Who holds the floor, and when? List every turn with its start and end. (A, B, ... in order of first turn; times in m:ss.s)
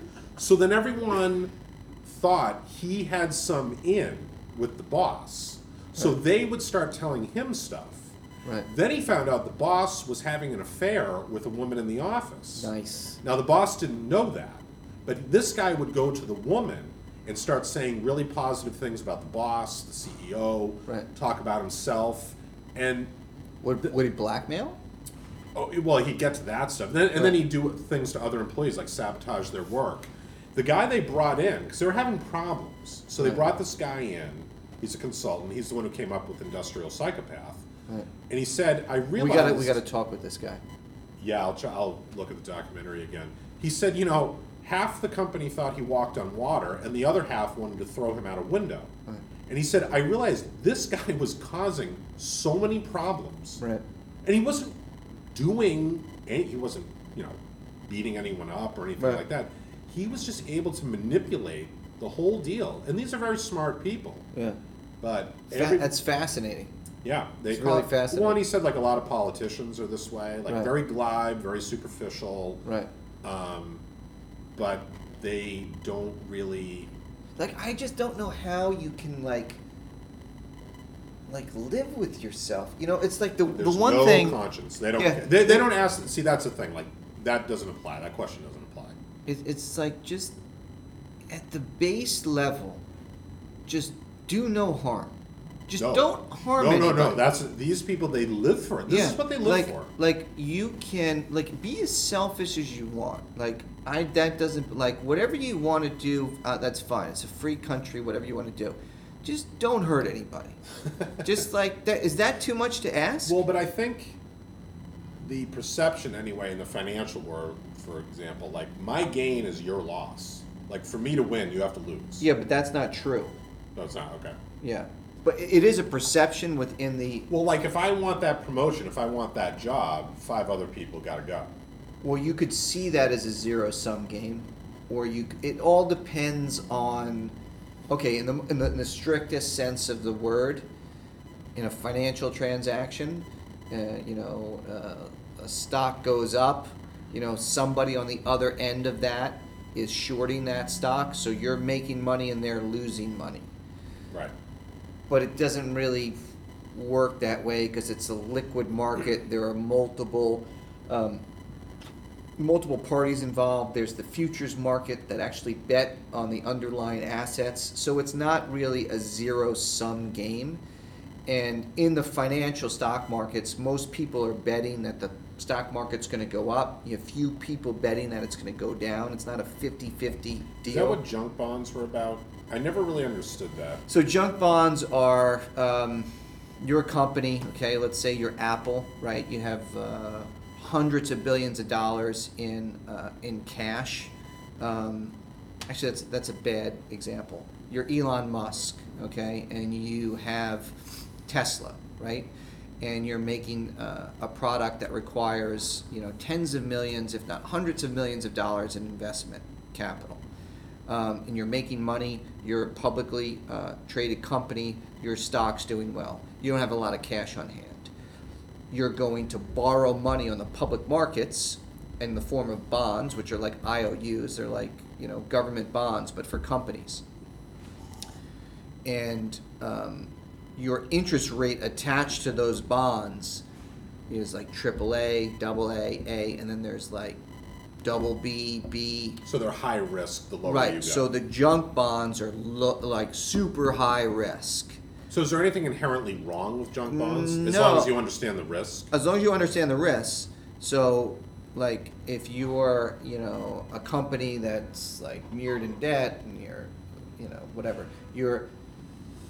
0:00.4-0:01.5 A
0:02.0-0:08.1 A
0:08.7-0:12.7 A
0:12.6-0:13.2 B
0:13.2-0:23.1 A
0:23.6-0:24.8 B
0:25.5-0:37.6 A
0:33.2-0:33.5 B
0:38.3-0:39.8 A
0:39.2-0:40.6 B
0:41.2-0:48.9 A
0:49.5-0:53.6 A
0:54.2-0:54.8 A
0:55.3-1:04.3 A
0:59.0-0:59.2 B
1:05.0-1:05.9 A
1:05.5-1:06.7 B
1:07.0-1:12.6 A
1:07.5-1:08.4 B
1:10.5-1:10.7 B
1:12.6-1:12.9 B
1:13.2-1:13.8 A
1:14.6-1:16.9 A
1:17.4-1:19.6 B
1:21.3-1:24.4 B
1:23.5-1:29.0 A
1:25.0-1:25.6 B
1:29.3-1:30.3 B
1:31.3-1:32.8 B
1:33.7-1:35.1 B
1:35.7-1:37.2 B
1:35.8-1:39.9 A
1:38.9-1:50.6 B
1:51.2-1:53.4 B
1:53.3-1:54.2 A
1:55.2-2:02.2 A
2:02.2-2:03.3 B
2:03.8-2:04.4 A
2:04.6-2:07.3 B
2:07.3-2:11.5 A
2:12.0-2:17.3 B
2:17.9-2:20.6 B
2:21.6-2:33.5 B
2:35.1-2:36.2 B
2:36.7-2:41.2 B
2:42.4-2:50.6 B
2:51.3-3:01.0 B
3:00.7-3:03.8 A
3:03.9-3:06.1 B
3:06.6-3:15.2 B
3:15.7-3:22.3 B
3:22.8-3:30.2 B
3:30.9-3:37.9 B
3:38.7-3:47.0 B
3:48.8-3:53.4 B
3:54.1-3:57.2 B
3:57.8-3:59.2 B
3:59.2-4:01.1 A
4:00.4-4:04.8 B
4:05.1-4:08.9 A
4:06.9-4:08.0 B
4:08.9-4:18.5 B